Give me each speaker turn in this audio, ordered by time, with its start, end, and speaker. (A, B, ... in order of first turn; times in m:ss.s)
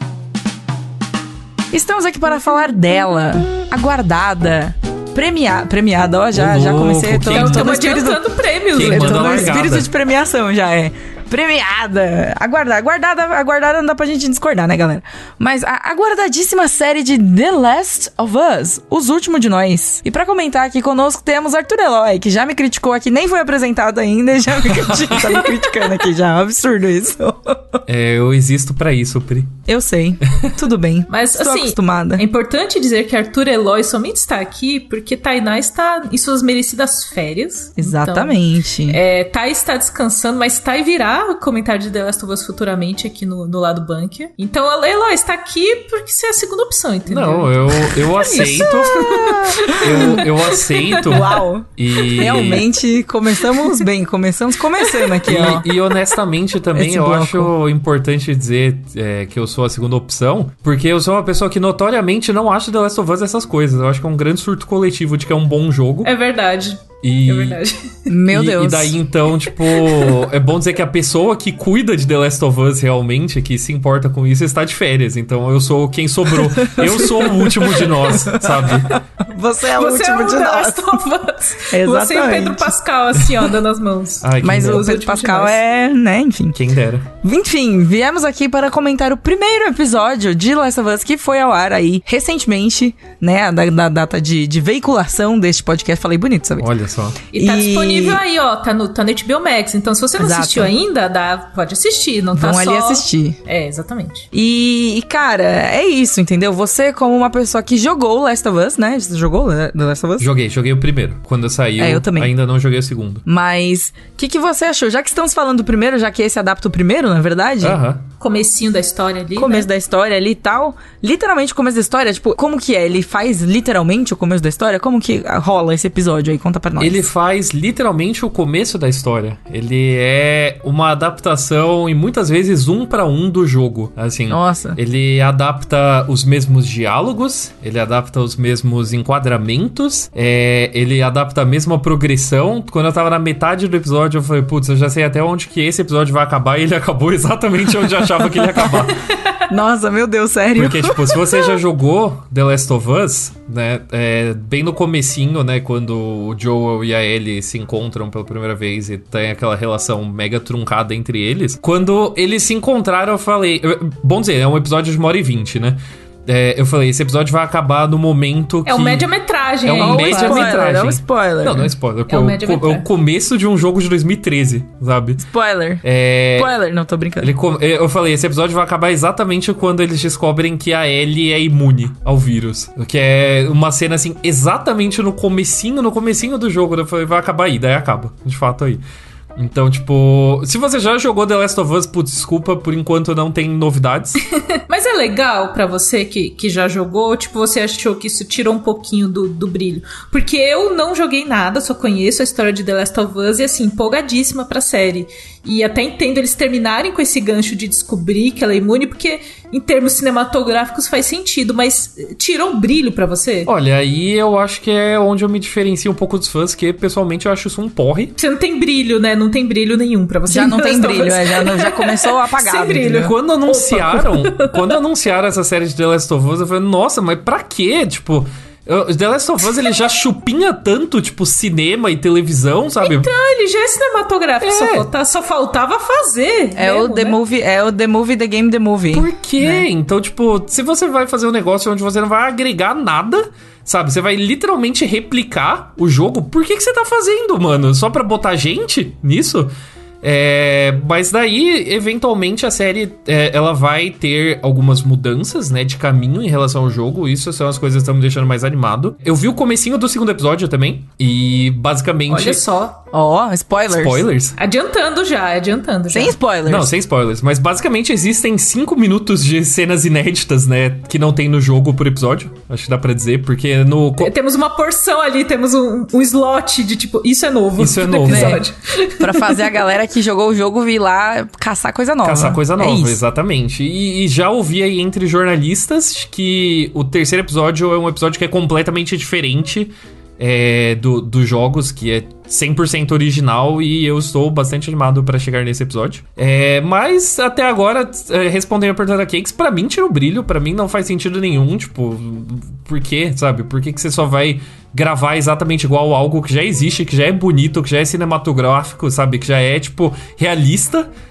0:01.7-0:27.8 A
0:06.3-0:07.8 B
0:07.3-0:09.6 C
0:08.7-0:09.9 B
0:24.8-0:25.4 B
0:27.9-0:29.6 B
0:29.7-0:32.2 A
0:31.1-0:51.2 C
0:37.8-0:39.0 A
0:47.1-0:52.7 B
0:48.3-0:50.2 A
0:51.0-0:55.6 A
0:54.8-0:55.1 C
0:55.2-1:06.1 B
0:56.7-0:57.5 A
1:06.0-1:07.8 C
1:07.0-1:07.6 B
1:08.1-1:09.0 A
1:08.3-1:19.0 B
1:16.6-1:21.0 A
1:19.8-1:25.6 C
1:21.7-1:22.7 A
1:24.2-1:24.9 B
1:24.4-1:26.6 A
1:26.5-1:27.1 B
1:27.2-1:36.7 A
1:36.6-1:37.2 B
1:37.3-1:44.3 C
1:37.3-1:38.2 A
1:40.2-1:40.7 A
1:42.3-1:43.4 A
1:44.3-1:50.3 A
1:50.2-1:53.2 B
1:51.8-1:52.3 A
1:53.2-1:57.8 A
1:57.6-1:58.0 B
1:58.2-1:59.7 C
1:59.4-2:07.1 A
2:06.8-2:29.0 B
2:14.3-2:14.8 A
2:29.5-2:31.4 A
2:30.6-2:49.1 B
2:48.6-2:50.7 C
2:49.6-2:55.2 B
2:49.8-2:51.7 A
2:52.1-2:52.9 C
2:55.2-2:55.8 A
2:55.8-2:56.5 B
2:56.3-2:57.3 A
2:57.2-3:08.8 B
3:09.4-3:14.2 B
3:14.7-3:33.5 C
3:33.4-3:38.2 B
3:38.2-3:44.8 C
3:40.3-3:43.1 A
3:42.9-3:53.1 B
3:52.8-3:57.2 C
3:54.4-3:54.9 B
3:56.6-3:59.6 A
3:58.9-4:09.5 B
4:10.0-4:22.4 B
4:22.1-4:22.8 C
4:22.9-4:24.0 A
4:23.7-4:24.4 B
4:24.4-4:26.2 C
4:25.9-4:26.7 A
4:26.5-4:34.1 B
4:34.0-4:39.3 C
4:37.6-4:38.4 B
4:38.1-4:38.4 A
4:39.0-4:43.0 A
4:42.0-5:10.9 B